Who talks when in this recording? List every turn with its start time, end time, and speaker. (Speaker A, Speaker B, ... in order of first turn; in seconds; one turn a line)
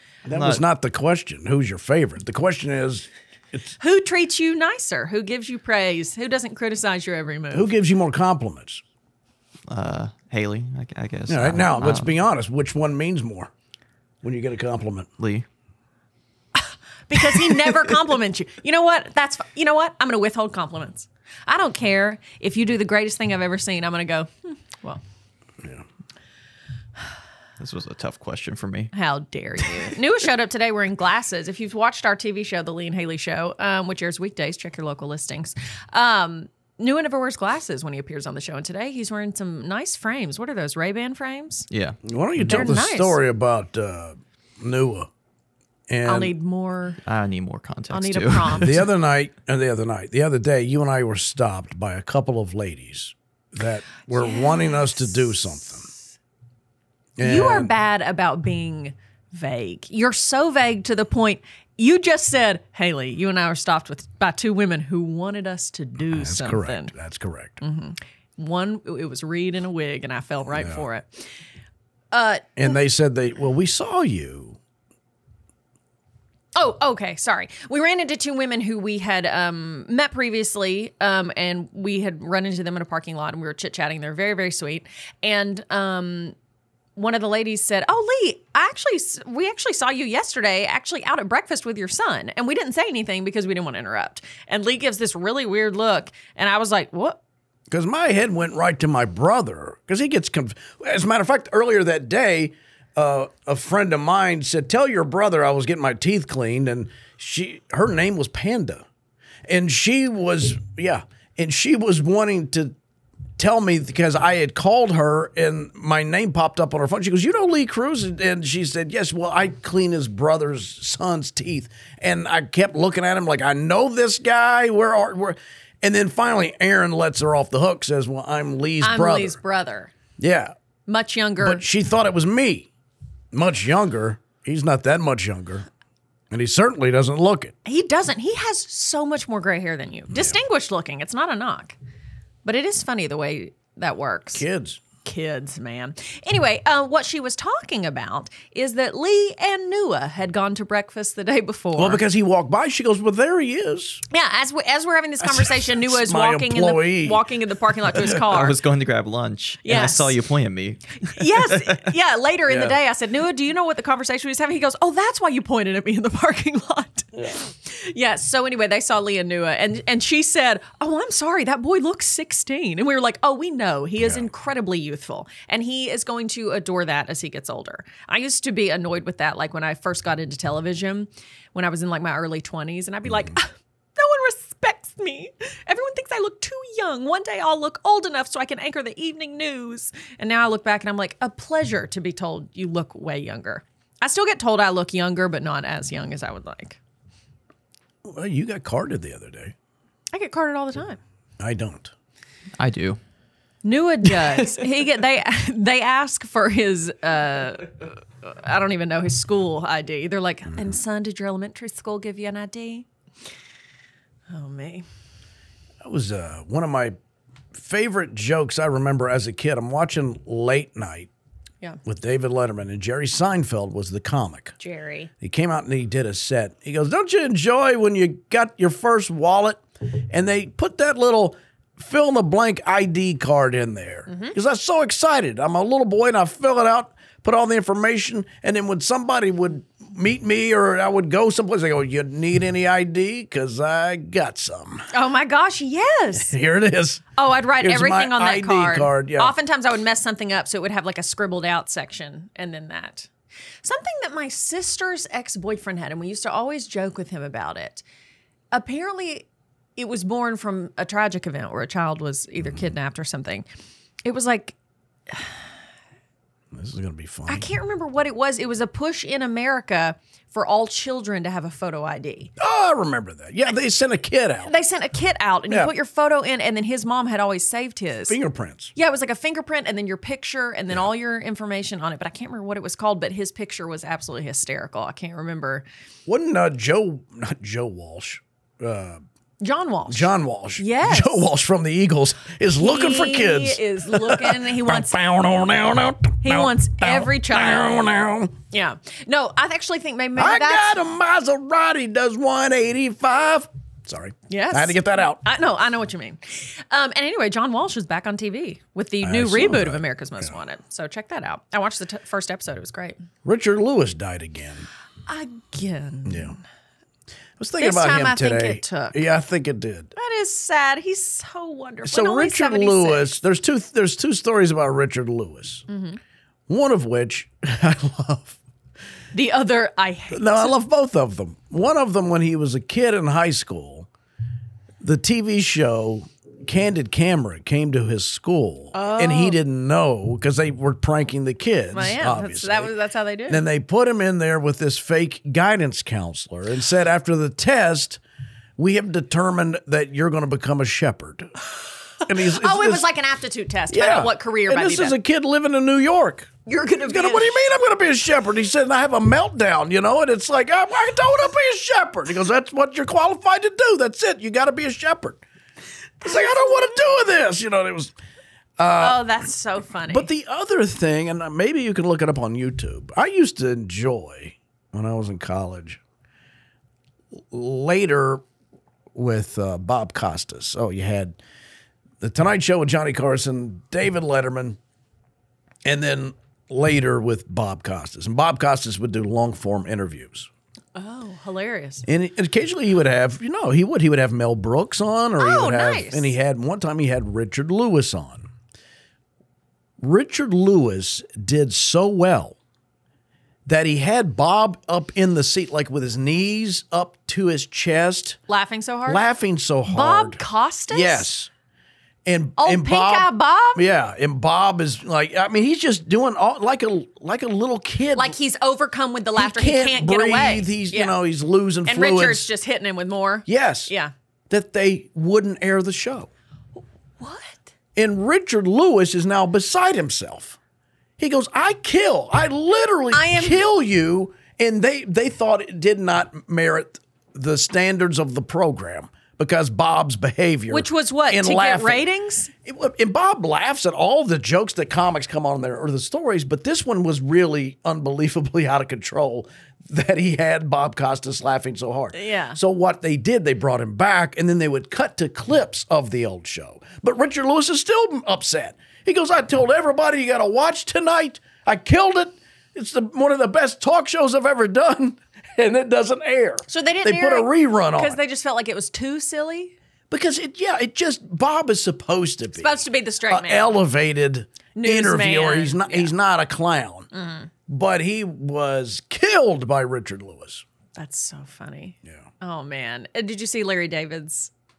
Speaker A: 0.3-3.7
Speaker B: 0.3-0.6
Speaker C: 3.8-7.7
Speaker A: 7.5-8.8
Speaker B: 9.7-12.1
Speaker A: 11.3-13.5
Speaker A: 14.2-15.1
Speaker B: 15.2-15.5
Speaker C: 16.6-25.0
Speaker A: 17.6-18.0
Speaker B: 27.6-28.9
Speaker C: 28.9-41.7
Speaker B: 41.7-42.7
Speaker A: 42.0-45.1
Speaker C: 42.4-43.2
Speaker A: 45.9-46.4
Speaker C: 46.0-47.0
Speaker B: 47.0-48.8
Speaker C: 47.9-48.9
Speaker A: 48.6-55.9
Speaker C: 54.1-55.9
Speaker A: 57.2-57.7
Speaker C: 57.2-66.9
Speaker A: 66.1-67.6
Speaker C: 67.6-71.3
Speaker A: 70.5-70.8
Speaker C: 72.1-72.8
Speaker A: 72.6-74.6
Speaker C: 76.6-86.3
Speaker C: 87.0-97.2
Speaker A: 97.7-108.8
Speaker A: 109.5-112.8
Speaker A: 113.4-129.4
Speaker C: 128.8-129.9
Speaker A: 130.2-130.5
Speaker C: 130.9-131.6
Speaker A: 131.4-132.7
Speaker A: 133.3-135.7
Speaker A: 136.3-137.6
Speaker C: 137.7-141.8
Speaker A: 140.1-140.4
Speaker C: 142.4-144.4
Speaker A: 144.3-144.8
Speaker C: 145.0-152.0
Speaker A: 151.8-154.0
Speaker C: 154.1-158.6
Speaker A: 155.2-157.2
Speaker B: 158.1-161.8
Speaker C: 159.6-160.1
Speaker C: 161.1-196.8
Speaker A: 162.5-162.8
Speaker A: 174.0-174.3
Speaker A: 198.1-199.5
Speaker C: 200.1-201.0
Speaker A: 201.4-201.9
Speaker B: 202.6-203.0
Speaker C: 203.6-212.9
Speaker C: 214.3-214.9
Speaker A: 215.8-217.0
Speaker A: 217.5-221.1
Speaker A: 221.8-224.6
Speaker C: 224.6-225.1
Speaker A: 225.2-244.9
Speaker C: 234.1-234.3
Speaker C: 244.9-246.3
Speaker A: 246.2-249.3
Speaker C: 247.2-253.1
Speaker C: 253.6-257.8
Speaker C: 258.5-263.5
Speaker C: 264.1-264.6
Speaker C: 265.1-265.4
Speaker A: 266.5-267.5
Speaker C: 267.3-272.3
Speaker A: 272.4-274.5
Speaker C: 274.5-278.2
Speaker A: 278.1-278.7
Speaker C: 278.8-285.7
Speaker A: 286.1-289.0
Speaker C: 289.4-291.3
Speaker A: 289.9-298.3
Speaker C: 292.6-294.9
Speaker C: 296.2-297.9
Speaker C: 298.5-300.8
Speaker A: 300.2-305.2
Speaker C: 304.3-313.0
Speaker A: 309.0-310.3
Speaker A: 313.2-314.7
Speaker C: 315.1-316.4
Speaker A: 316.1-316.4
Speaker A: 317.4-319.9
Speaker C: 317.6-319.0
Speaker C: 320.0-323.1
Speaker A: 321.8-325.7
Speaker C: 325.7-326.0
Speaker A: 326.5-328.4
Speaker C: 329.1-330.6
Speaker A: 330.1-333.9
Speaker A: 334.8-342.7
Speaker C: 338.7-339.4
Speaker C: 341.7-343.4
Speaker A: 343.3-348.0
Speaker A: 348.6-351.3
Speaker A: 352.1-352.9
Speaker C: 352.2-355.0
Speaker A: 353.7-356.3
Speaker C: 356.5-357.4
Speaker A: 356.9-365.2
Speaker A: 366.0-367.9
Speaker A: 368.6-369.1
Speaker C: 368.8-370.1
Speaker A: 369.9-375.8
Speaker A: 377.3-378.2
Speaker A: 378.9-381.2
Speaker A: 382.0-384.6
Speaker A: 385.6-390.3
Speaker C: 390.8-391.9
Speaker A: 391.9-398.3
Speaker C: 395.2-396.1
Speaker A: 399.8-402.4
Speaker A: 403.5-408.2
Speaker C: 408.3-409.0
Speaker A: 408.9-411.3
Speaker C: 409.7-411.1
Speaker A: 412.1-418.2
Speaker C: 412.4-413.7
Speaker C: 417.9-420.9
Speaker A: 419.2-422.3
Speaker C: 421.7-423.9
Speaker A: 423.3-423.7
Speaker A: 424.3-426.1
Speaker C: 427.0-427.5
Speaker A: 427.8-430.4
Speaker A: 431.0-441.9
Speaker C: 432.9-433.5
Speaker C: 440.5-442.3
Speaker A: 442.4-468.0
Speaker C: 451.9-452.4
Speaker C: 466.5-469.5
Speaker A: 469.9-476.9
Speaker C: 472.4-473.5
Speaker C: 474.6-475.9
Speaker C: 476.9-477.3
Speaker A: 477.5-480.4
Speaker C: 480.8-484.3